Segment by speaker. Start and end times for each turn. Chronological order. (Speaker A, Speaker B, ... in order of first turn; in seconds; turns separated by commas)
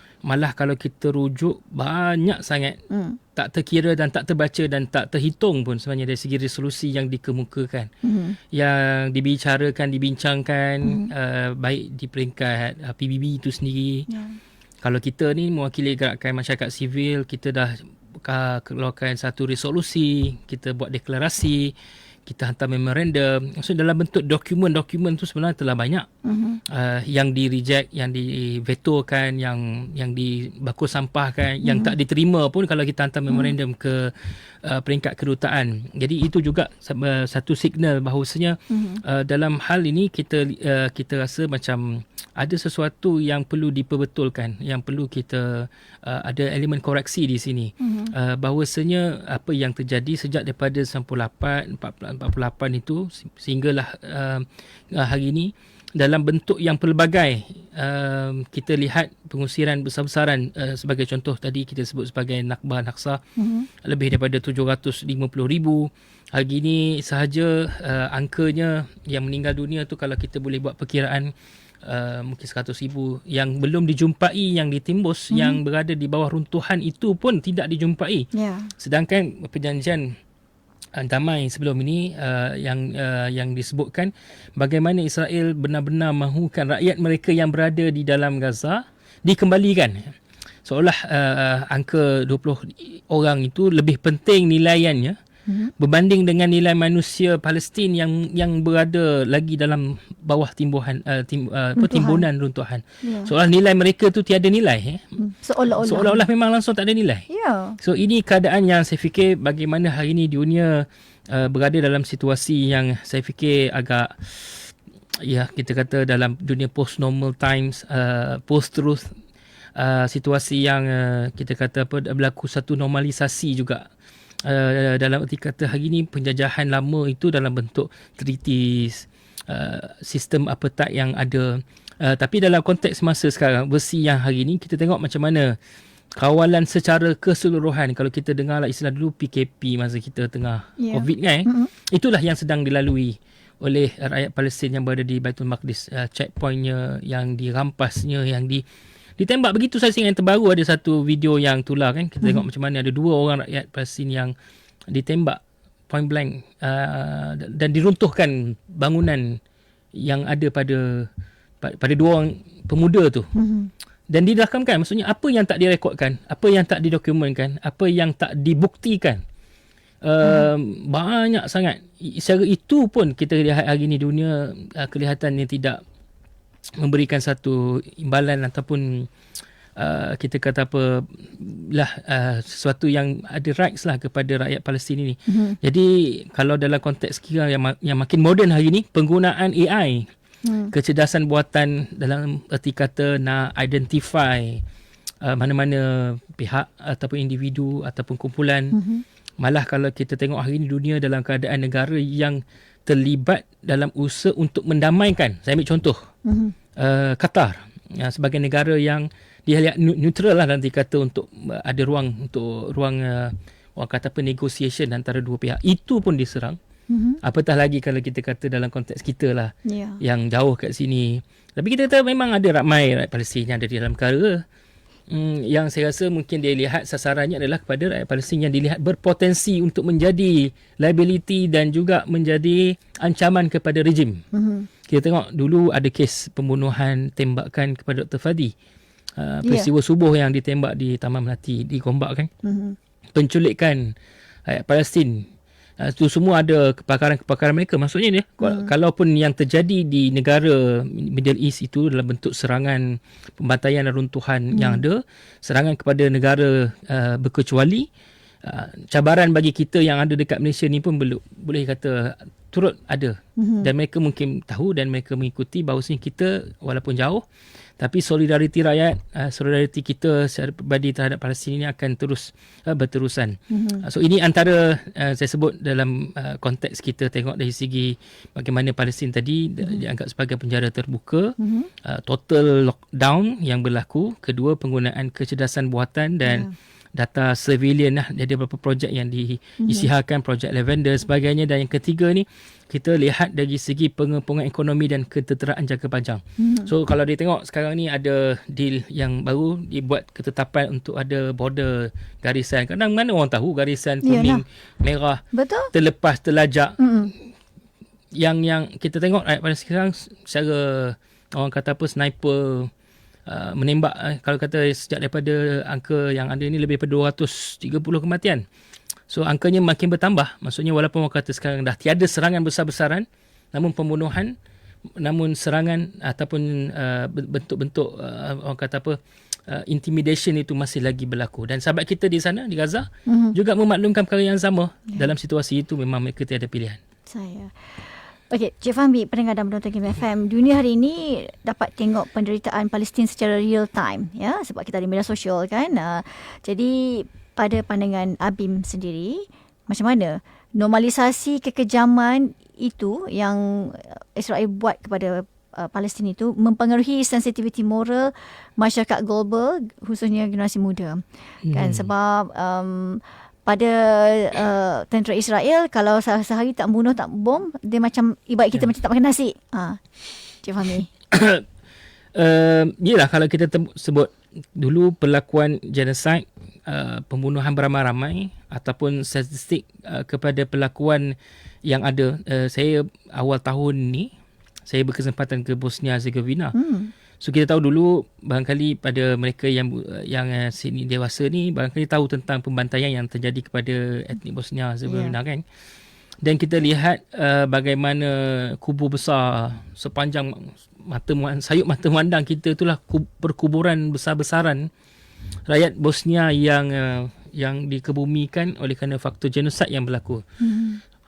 Speaker A: 0.2-2.8, Speaker B: 2.9-3.2, Speaker A: 3.4-7.9, Speaker B: 8.0-8.4, Speaker A: 8.5-14.1, Speaker B: 10.8-11.1, Speaker B: 14.1-14.4, Speaker A: 14.8-21.7, Speaker A: 22.3-26.1, Speaker B: 26.2-26.6, Speaker A: 26.7-34.1, Speaker B: 31.6-31.9, Speaker A: 34.6-63.2, Speaker B: 38.7-39.0, Speaker B: 47.8-48.1, Speaker B: 63.4-63.7, Speaker A: 63.8-71.3, Speaker A: 71.8-80.2, Speaker B: 75.3-75.6, Speaker B: 78.3-78.7, Speaker A: 81.0-90.1, Speaker A: 90.7-95.2, Speaker A: 95.8-105.1, Speaker B: 101.8-102.2, Speaker B: 103.0-103.3, Speaker B: 105.2-106.2, Speaker A: 105.7-107.3, Speaker B: 107.3-107.8, Speaker A: 107.8-119.1, Speaker A: 119.8-123.9, Speaker A: 124.5-135.6, Speaker A: 136.2-148.6, Speaker B: 140.8-141.7, Speaker A: 149.2-154.3, Speaker A: 154.9-159.4, Speaker A: 160.0-161.1, Speaker A: 161.6-163.3, Speaker B: 163.3-163.7, Speaker A: 164.1-169.2, Speaker A: 170.0-175.8, Speaker A: 176.8-179.1, Speaker A: 179.8-190.1, Speaker B: 185.3-185.6, Speaker B: 190.4-190.7, Speaker A: 190.7-194.6, Speaker A: 195.2-198.8, Speaker B: 198.7-199.0, Speaker A: 199.4-206.1, Speaker B: 206.2-206.6, Speaker A: 206.8-216.6, Speaker B: 216.9-217.2, Speaker A: 217.2-224.4, Speaker B: 219.7-220.0, Speaker A: 225.1-234.2, Speaker B: 234.3-234.7, Speaker A: 234.9-238.5, Speaker A: 239.2-242.3, Speaker B: 242.4-242.8, Speaker A: 243.2-243.9, Speaker A: 244.5-245.2, Speaker A: 245.8-257.9, Speaker B: 248.4-248.7, Speaker B: 254.5-254.8, Speaker A: 258.4-267.2, Speaker B: 263.4-263.7, Speaker A: 267.8-306.8, Speaker B: 273.5-273.9, Speaker B: 281.4-281.7, Speaker B: 286.2-286.5, Speaker B: 289.6-289.9, Speaker B: 296.4-296.7, Speaker B: 304.0-304.4, Speaker B: 305.3-305.7, Speaker B: 306.8-307.1, Speaker A: 308.2-312.7, Speaker A: 313.3-318.4, Speaker A: 319.1-324.4, Speaker A: 325.0-329.0, Speaker A: 329.5-336.8, Speaker B: 333.1-333.4, Speaker B: 337.1-361.0, Speaker A: 361.4-361.9, Speaker B: 361.5-369.8, Speaker B: 370.4-370.9, Speaker A: 371.1-371.4, Speaker A: 372.1-384.1, Speaker A: 384.7-386.6, Speaker B: 386.6-386.9, Speaker A: 387.2-395.4, Speaker B: 394.9-395.2, Speaker A: 396.2-404.7, Speaker A: 405.5-410.2, Speaker B: 410.4-410.8